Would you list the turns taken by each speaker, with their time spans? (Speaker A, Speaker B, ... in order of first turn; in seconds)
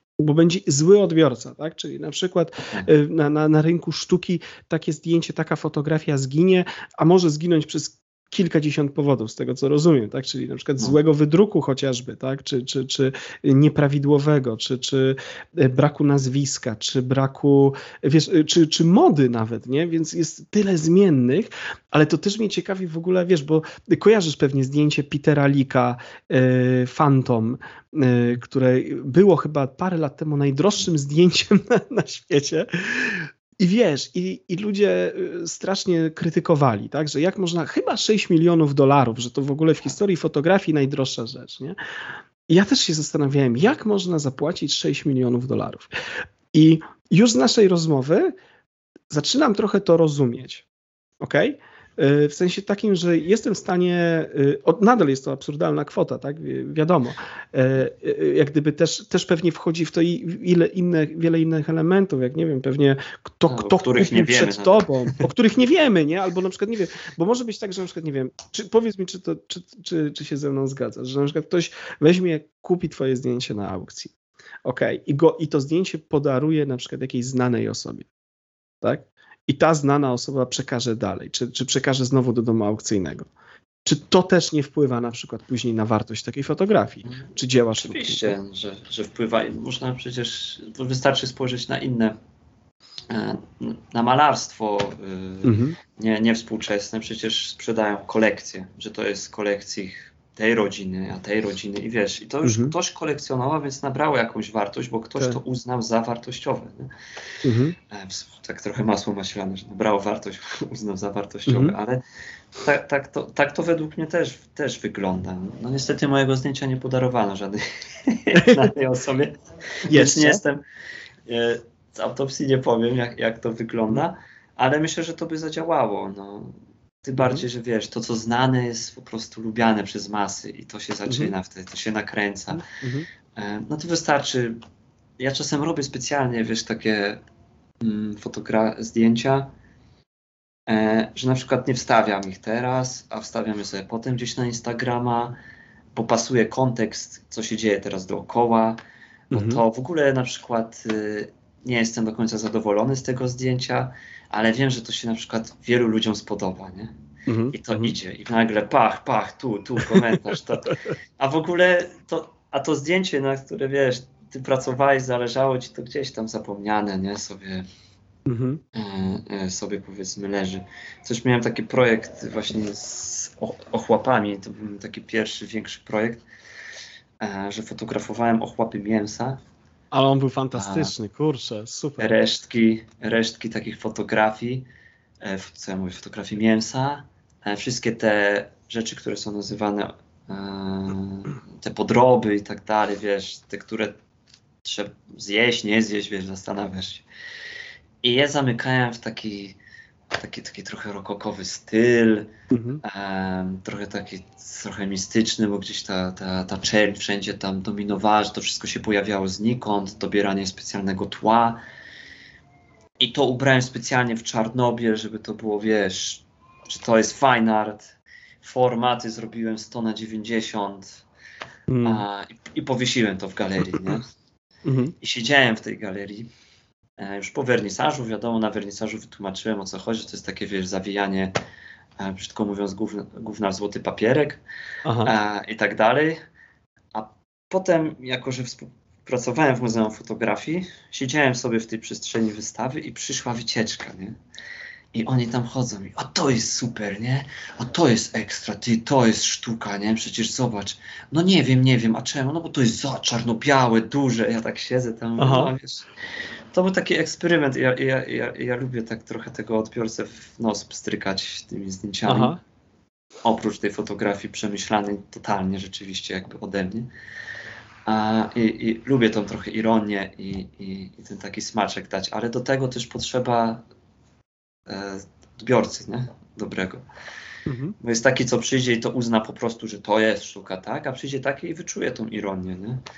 Speaker A: 0.2-41.8, 42.5-45.9, 46.5-48.3, 49.1-50.6, 51.2-74.1, 74.7-78.1, 78.8-83.3, 83.8-88.3, 95.4-95.8, 102.4-102.7, 107.4-107.8, 111.5-111.8, 118.4-118.6, 119.9-120.4, 127.2-127.5, 131.1-131.3, 132.5-133.1, 149.3-149.6, 157.3-158.0, 168.3-168.6, 179.9-182.2, 202.5-202.8, 221.7-222.1, 224.7-224.9, 234.8-235.1, 255.2-255.5, 262.1-262.4, 277.5-277.8
Speaker B: 63.5-65.2, 87.1-92.2, 93.1-106.9, 107.9-112.0, 112.6-120.6, 121.3-132.6, 133.4-134.6, 135.2-137.2, 137.8-139.5, 140.7-145.4, 145.9-148.8, 149.3-156.9, 157.5-167.7, 168.7-176.2, 177.2-179.4, 180.5-180.9, 182.0-184.7, 185.2-194.0, 194.6-197.1, 198.0-199.6, 200.1-211.6, 213.0-221.0, 221.8-224.1, 225.0-226.3, 227.0-231.3, 232.0-234.4, 235.0-236.2, 236.9-244.2, 244.9-255.9, 256.5-262.4, 263.2-266.9, 267.9-273.6, 274.7-276.9, 277.8-282.8